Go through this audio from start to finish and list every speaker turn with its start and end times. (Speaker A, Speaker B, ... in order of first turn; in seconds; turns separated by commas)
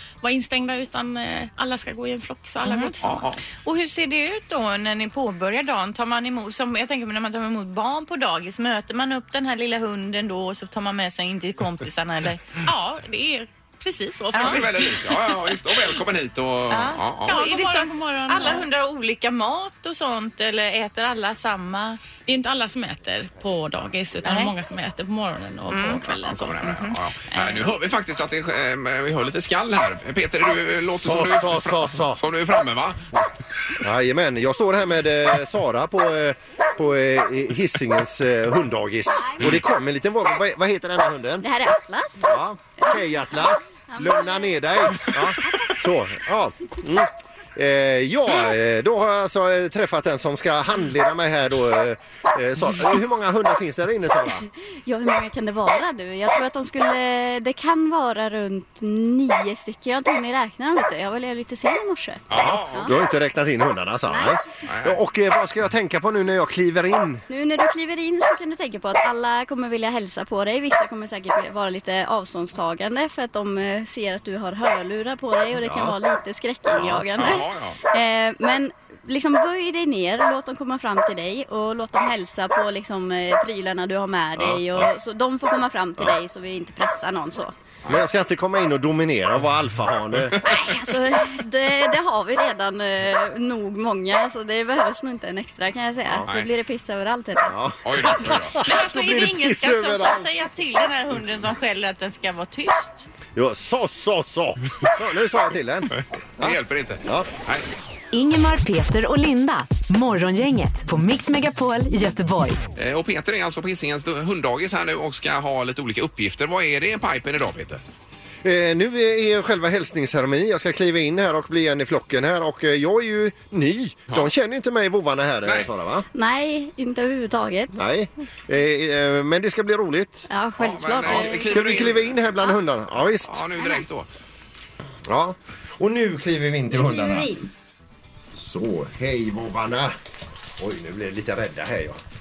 Speaker A: 0.2-3.4, Speaker B: 2.6-2.9, Speaker C: 3.0-3.4, Speaker B: 3.6-12.6, Speaker A: 12.6-14.7, Speaker B: 14.3-14.7, Speaker C: 14.4-17.4, Speaker B: 16.7-22.1, Speaker A: 17.3-18.7, Speaker A: 22.1-26.7, Speaker B: 24.2-24.5, Speaker B: 25.7-27.6, Speaker C: 26.2-33.1, Speaker D: 31.0-32.2, Speaker D: 33.8-41.5, Speaker E: 39.2-39.5, Speaker E: 41.4-43.0, Speaker D: 42.2-54.5, Speaker E: 43.8-45.0, Speaker E: 54.9-62.9, Speaker C: 62.3-62.9, Speaker D: 62.3-67.2, Speaker E: 64.1-64.4, Speaker C: 64.6-65.0, Speaker E: 67.3-87.5, Speaker D: 75.6-75.9, Speaker D: 76.7-77.4, Speaker C: 77.2-77.8, Speaker D: 84.4-84.9, Speaker D: 87.9-90.4, Speaker E: 90.4-97.5, Speaker D: 97.4-100.3, Speaker C: 97.8-98.6, Speaker B: 98.6-103.0, Speaker D: 103.3-107.3, Speaker C: 105.9-107.7, Speaker F: 108.1-112.6, Speaker C: 112.8-117.8, Speaker D: 118.4-126.0, Speaker C: 125.4-125.7, Speaker E: 126.1-127.7, Speaker D: 127.7-130.2, Speaker E: 130.3-131.5, Speaker C: 130.6-132.2, Speaker D: 131.0-133.4, Speaker C: 133.1-134.1, Speaker D: 135.1-137.3, Speaker E: 136.7-137.5, Speaker D: 138.3-139.9, Speaker D: 140.6-142.0